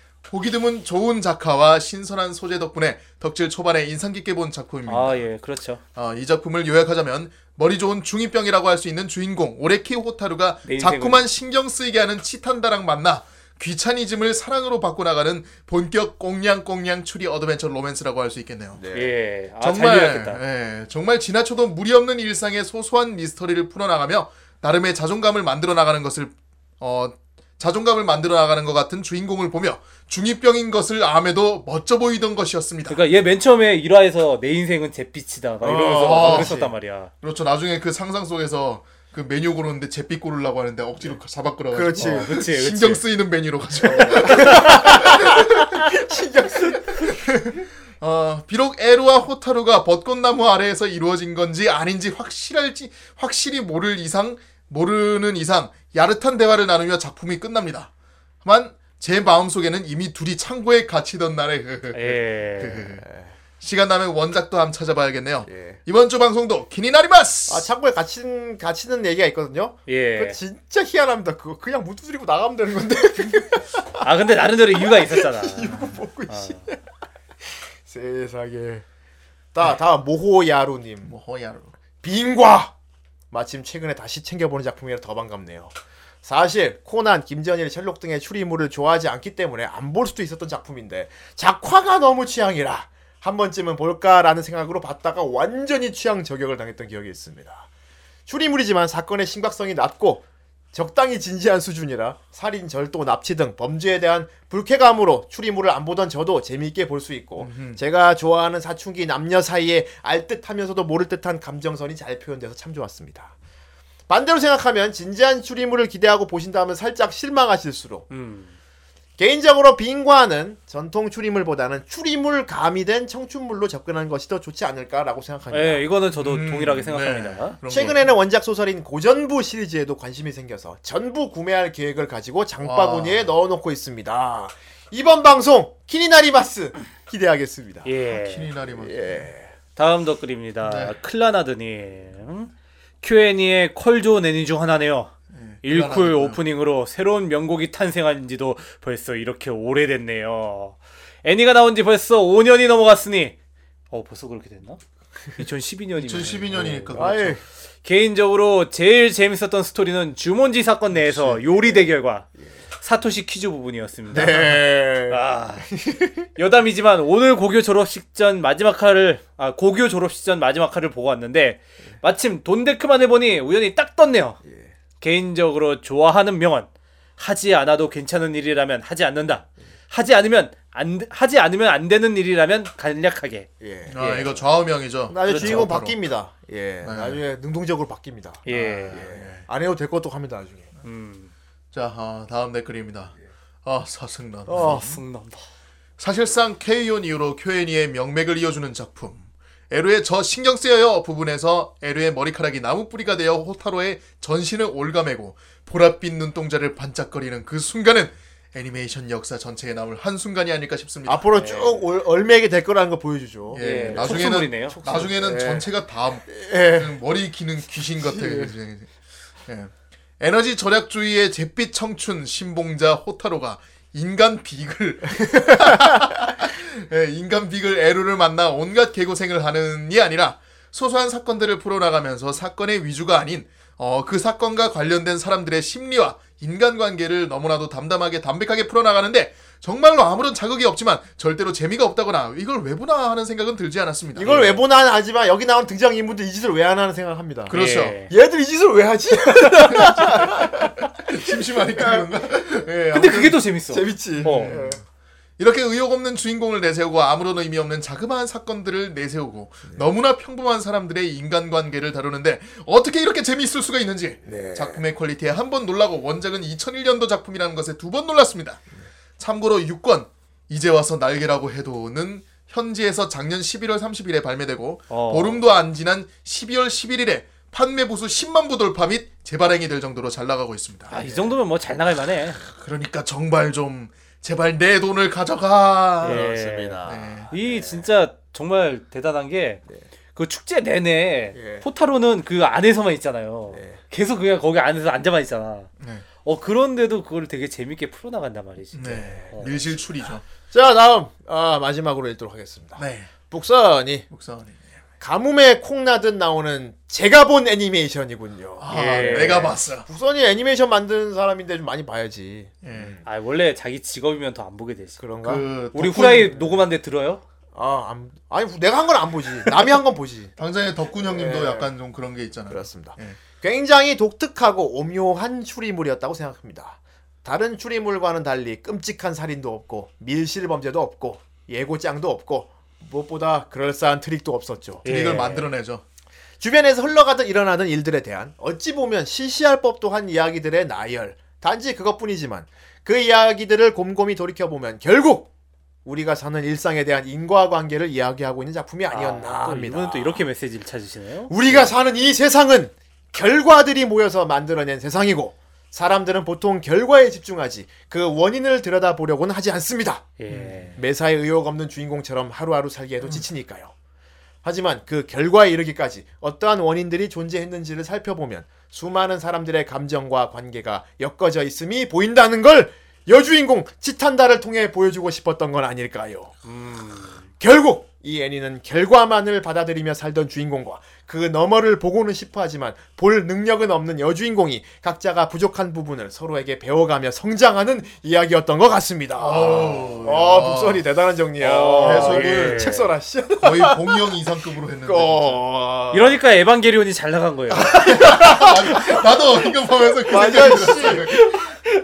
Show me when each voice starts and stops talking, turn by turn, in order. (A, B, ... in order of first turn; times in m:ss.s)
0:00.3-0:05.2 A
0:04.9-0:05.8 B
0:05.9-0:18.8 A
0:10.6-0:11.2 B
0:18.8-0:19.1 C
0:18.9-0:20.4 B
0:19.6-0:33.0 A
0:32.9-0:37.1 B
0:35.6-0:36.7 C
0:35.9-0:45.9 A
0:41.7-0:42.4 C
0:42.0-0:43.0 B
0:43.8-0:47.3 C
0:44.2-0:44.8 B
0:46.8-0:57.9 A
0:58.4-1:03.1 A
1:01.9-1:02.9 B
1:03.0-1:03.3 C
1:03.6-1:07.7 A
1:05.5-1:05.8 C
1:07.5-1:14.0 C
1:09.9-1:10.4 B
1:14.0-1:16.7 B
1:14.8-1:16.8 C
1:17.4-1:18.8 C
1:19.5-1:21.1 C
1:21.1-1:21.7 A
1:22.0-1:22.7 C
1:23.3-1:37.7 C
1:38.3-1:53.3 C
1:47.4-1:47.8 A
1:54.1-1:58.1 C
1:58.1-1:58.5 B
1:59.2-2:05.9 C
2:05.5-2:07.6 B
2:06.1-2:08.1 A
2:07.7-2:17.9 C
2:12.6-2:13.3 A
2:17.8-2:18.5 B
2:18.1-2:19.3 A
2:18.7-2:19.5 C
2:19.8-2:22.5 B
2:20.6-2:21.0 A
2:23.0-2:25.1 B
2:25.3-2:26.4 A
2:25.6-2:33.3 B
2:33.9-2:34.8 B
2:35.3-2:37.0 B
2:36.0-2:37.4 A
2:36.9-2:37.4 C
2:37.8-2:42.3 B
2:41.1-2:41.8 C
2:42.8-2:45.7 B
2:44.1-2:46.3 C
2:46.4-2:54.4 B
2:54.4-2:54.7 C
2:55.0-3:03.5 B
3:03.6-3:04.4 C
3:03.9-3:06.0 A
3:05.1-3:10.7 C
3:05.2-3:05.7 B
3:06.8-3:07.2 A
3:08.5-3:09.0 B
3:08.5-3:09.4 A
3:10.8-3:11.3 B
3:11.7-3:14.9 A
3:14.5-3:15.0 C
3:14.5-3:15.5 B
3:16.0-3:31.3 A
3:31.0-3:35.7 C
3:31.3-3:31.8 B
3:33.5-3:38.9 A
3:33.5-3:34.8 B
3:36.3-3:37.0 C
3:38.0-3:38.5 C
3:39.5-4:04.3 A
3:45.3-3:46.0 C
4:04.1-4:12.1 C
4:04.2-4:04.6 B
4:07.5-4:08.0 A
4:07.5-4:08.1 B
4:09.6-4:13.4 A
4:12.9-4:14.6 B
4:13.0-4:14.8 C
4:14.2-4:14.7 A
4:15.4-4:28.6 A
4:24.2-4:24.8 C
4:29.2-4:40.9 A
4:34.9-4:35.4 B
4:40.9-4:42.4 B
4:41.0-4:41.3 C
4:42.4-4:46.3 A
4:46.0-4:47.8 C
4:46.0-4:49.6 B
4:46.8-4:47.3 A
4:50.1-4:55.7 B
4:51.3-4:51.6 C
4:53.5-4:53.8 C
4:56.2-4:59.5 B
4:58.8-5:00.2 A
5:00.5-5:04.0 C
5:02.8-5:03.1 A
5:04.1-5:04.6 A
5:05.0-5:13.0 C
5:08.6-5:09.9 A
5:08.7-5:09.5 B
5:12.6-5:13.0 A
5:13.0-5:15.0 B
5:15.0-5:15.5 C
5:15.2-5:16.4 A
5:15.7-5:17.2 B
5:17.5-5:20.3 C
5:20.4-5:23.2 A
5:20.9-5:21.7 C
5:22.5-5:34.8 C
5:34.8-5:35.8 A
5:34.8-5:35.5 B
5:36.4-5:45.3 C
5:45.8-5:50.2 C
5:48.9-5:51.7 B
5:51.3-6:00.1 C
6:00.2-6:00.8 B
6:00.3-6:00.6 A
6:00.8-6:03.7 C
6:04.4-6:16.3 C
6:16.4-6:17.3 B
6:17.4-6:34.2 C
6:29.2-6:30.8 A
6:31.4-6:32.9 B
6:31.8-6:32.6 A
6:33.4-6:35.4 A
6:34.8-6:36.2 C
6:35.9-6:37.7 B
6:37.5-6:41.6 C
6:37.6-6:41.5 A